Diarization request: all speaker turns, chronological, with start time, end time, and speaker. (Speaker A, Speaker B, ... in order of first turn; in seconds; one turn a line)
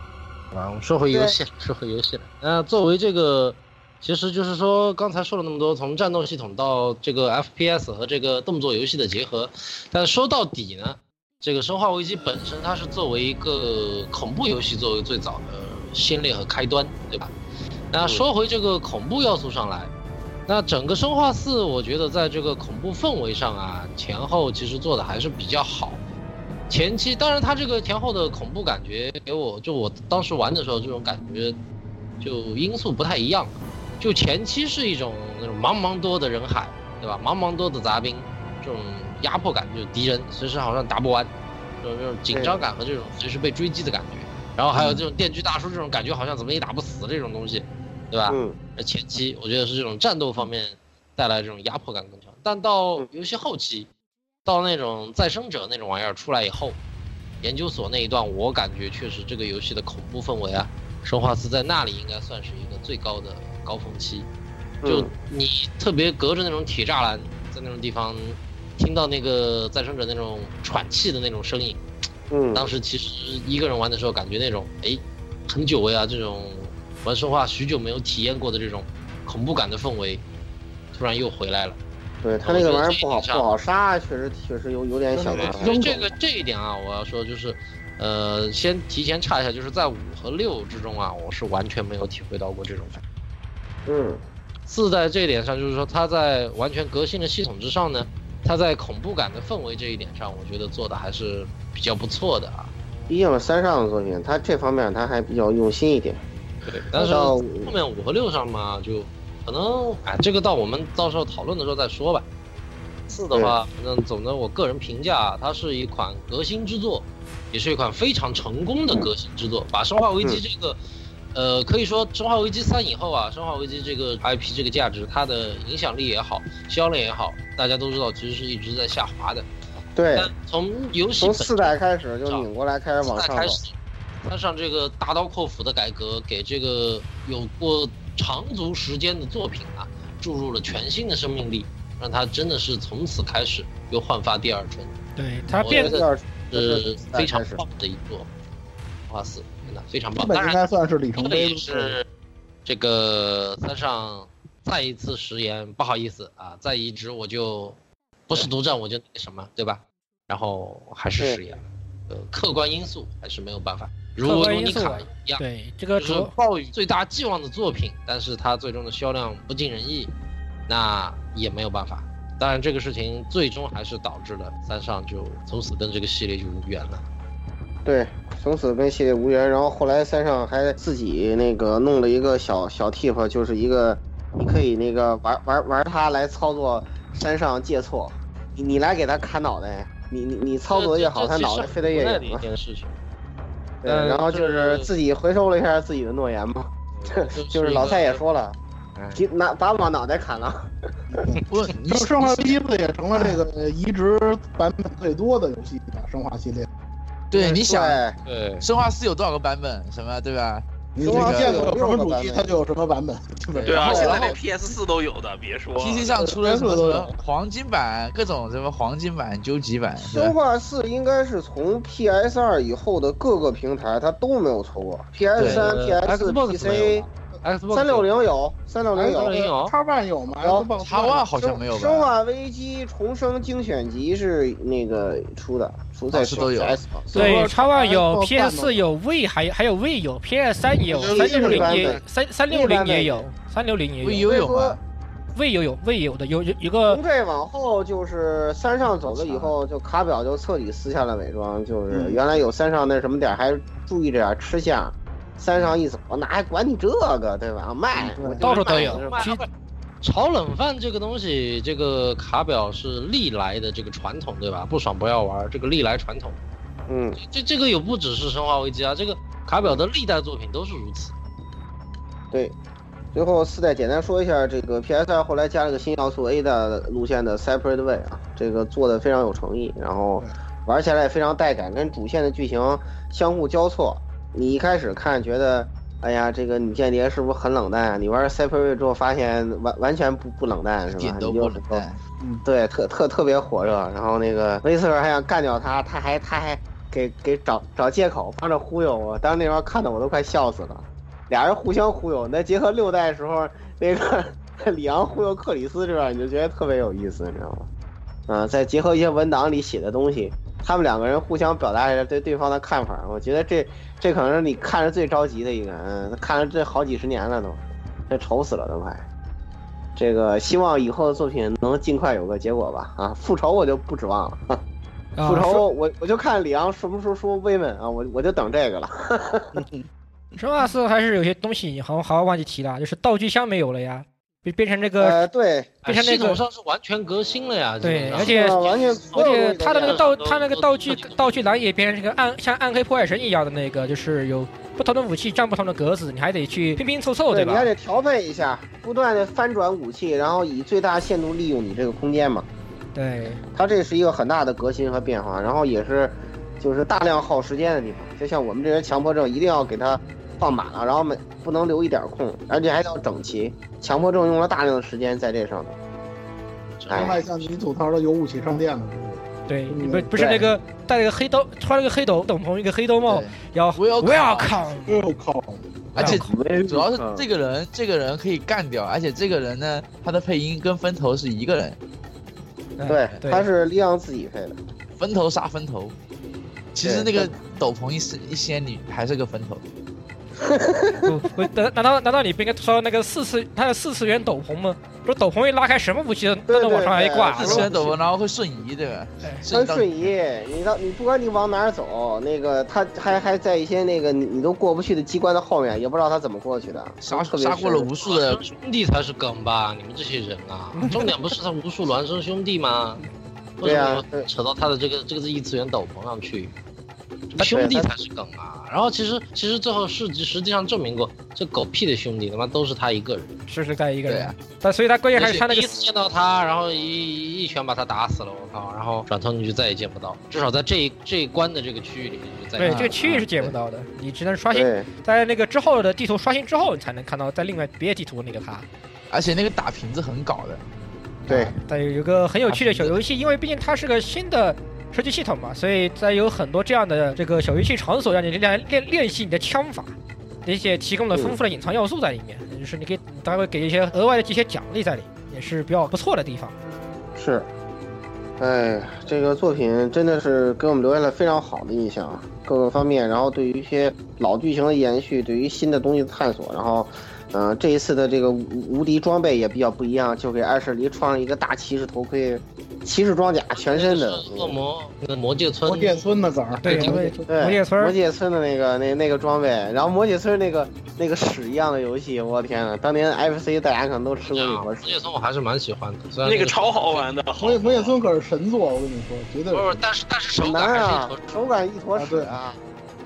Speaker A: 0.5-17.3
Speaker B: 1.1-1.4
Speaker A: 17.9-19.9
Speaker A: 20.5-26.0
Speaker A: 26.7-31.6
Speaker A: 32.2-41.3
Speaker A: 41.8-53.9
Speaker B: 42.3-42.6
Speaker B: 48.3-48.5
Speaker A: 54.4-56.8
Speaker A: 57.4-64.3
Speaker B: 64.8-65.1
Speaker A: 64.8-71.8
Speaker B: 72.3-72.7
Speaker A: 72.5-80.2
Speaker A: 80.9-81.8
Speaker B: 82.2-86.1
Speaker A: 82.4-83.4
Speaker C: 85.1-86.1
Speaker A: 85.3-93.0
Speaker B: 93.8-94.2
Speaker A: 94.7-102.7
Speaker B: 103.1-106.2
Speaker A: 106.6-112.2
Speaker B: 107.0-107.8
Speaker A: 113.1-120.8
Speaker A: 121.3-129.5
Speaker B: 129.9-130.3
Speaker A: 130.1-132.5
Speaker B: 131.2-133.6
Speaker A: 133.0-145.0
Speaker D: 145.2-145.9
Speaker B: 145.5-147.6
Speaker A: 145.6-148.3
Speaker A: 149.1-152.1
Speaker C: 150.2-152.0
Speaker A: 152.7-165.4
Speaker D: 164.2-166.3
Speaker A: 166.0-170.1
Speaker A: 170.7-177.0
Speaker B: 177.8-192.4
Speaker A: 190.7-193.0
Speaker B: 193.8-198.6
Speaker A: 193.8-194.9
Speaker A: 197.0-198.2
Speaker A: 199.0-199.2
Speaker B: 199.1-201.0
Speaker C: 201.1-206.7
Speaker E: 201.5-202.6
Speaker E: 207.3-208.0
Speaker B: 207.3-208.1
Speaker A: 208.2-208.7
Speaker E: 208.6-211.7
Speaker C: 210.9-214.0
Speaker B: 211.0-212.5
Speaker E: 213.5-214.4
Speaker F: 213.7-216.2
Speaker B: 213.9-214.4
Speaker E: 215.8-220.3
Speaker C: 216.2-217.1
Speaker B: 220.0-227.1
Speaker E: 225.3-225.7
Speaker A: 225.4-228.1
Speaker B: 227.7-229.3
Speaker C: 228.9-231.3
Speaker A: 229.2-229.7
Speaker B: 230.4-230.7
Speaker E: 230.8-232.1
Speaker B: 231.4-237.4
Speaker E: 236.1-236.8
Speaker C: 237.1-238.9
Speaker D: 237.2-244.3
Speaker B: 240.9-243.2
Speaker C: 240.9-241.9
Speaker E: 241.3-241.7
Speaker E: 244.0-244.8
Speaker B: 244.2-244.8
Speaker D: 245.3-247.0
Speaker B: 246.9-259.3
Speaker E: 249.0-249.5
Speaker C: 251.9-252.2
Speaker C: 257.9-258.4
Speaker D: 258.4-259.4
Speaker A: 258.4-259.5
Speaker A: 260.0-266.4
Speaker B: 266.9-267.2
Speaker A: 267.2-271.1
Speaker B: 272.3-272.6
Speaker B: 273.1-291.8
Speaker E: 290.9-292.0
Speaker B: 292.4-307.7
Speaker B: 308.3-319.0
Speaker B: 319.9-324.6
Speaker D: 325.1-325.6
Speaker B: 325.2-329.5
Speaker C: 329.5-329.8
Speaker D: 330.4-335.2
Speaker B: 335.0-335.7
Speaker D: 335.8-336.4
Speaker A: 335.8-341.3
Speaker D: 337.8-338.6
Speaker B: 338.2-340.0
Speaker D: 339.1-347.7
Speaker B: 347.3-352.5
Speaker D: 352.9-353.4
Speaker B: 353.5-365.8
Speaker A: 366.8-367.5
Speaker B: 366.9-367.2
Speaker C: 366.9-370.1
Speaker D: 369.5-375.0
Speaker B: 370.1-370.5
Speaker E: 373.1-374.7
Speaker C: 374.9-375.9
Speaker E: 375.9-381.8
Speaker D: 376.0-376.3
Speaker B: 376.0-377.3
Speaker D: 382.8-383.4
Speaker B: 382.9-384.6
Speaker E: 385.0-385.9
Speaker E: 386.7-389.6
Speaker B: 386.8-387.4
Speaker B: 390.4-391.1
Speaker D: 391.1-397.7
Speaker B: 396.5-398.0
Speaker E: 397.3-399.9
Speaker B: 399.5-407.9
Speaker E: 407.0-408.4
Speaker A: 408.0-413.1
Speaker A: 413.6-416.5
Speaker B: 413.6-414.3
Speaker A: 417.3-423.4
Speaker B: 417.4-417.9
Speaker D: 423.5-425.7
Speaker E: 424.1-424.4
Speaker A: 425.2-432.9
Speaker D: 432.6-438.7
Speaker E: 432.6-433.5
Speaker B: 434.5-434.9
Speaker E: 439.1-440.6
Speaker E: 441.2-441.5
Speaker B: 441.3-441.5
Speaker D: 441.6-456.5
Speaker E: 442.5-442.9
Speaker B: 457.1-457.5
Speaker B: 458.4-474.6
Speaker A: 473.5-476.0
Speaker C: 475.6-477.4
Speaker D: 476.6-477.9
Speaker B: 477.3-485.0
Speaker A: 484.2-487.1
Speaker F: 486.2-488.0
Speaker C: 487.4-489.8
Speaker A: 489.5-491.5
Speaker B: 490.4-492.6
Speaker C: 491.9-492.4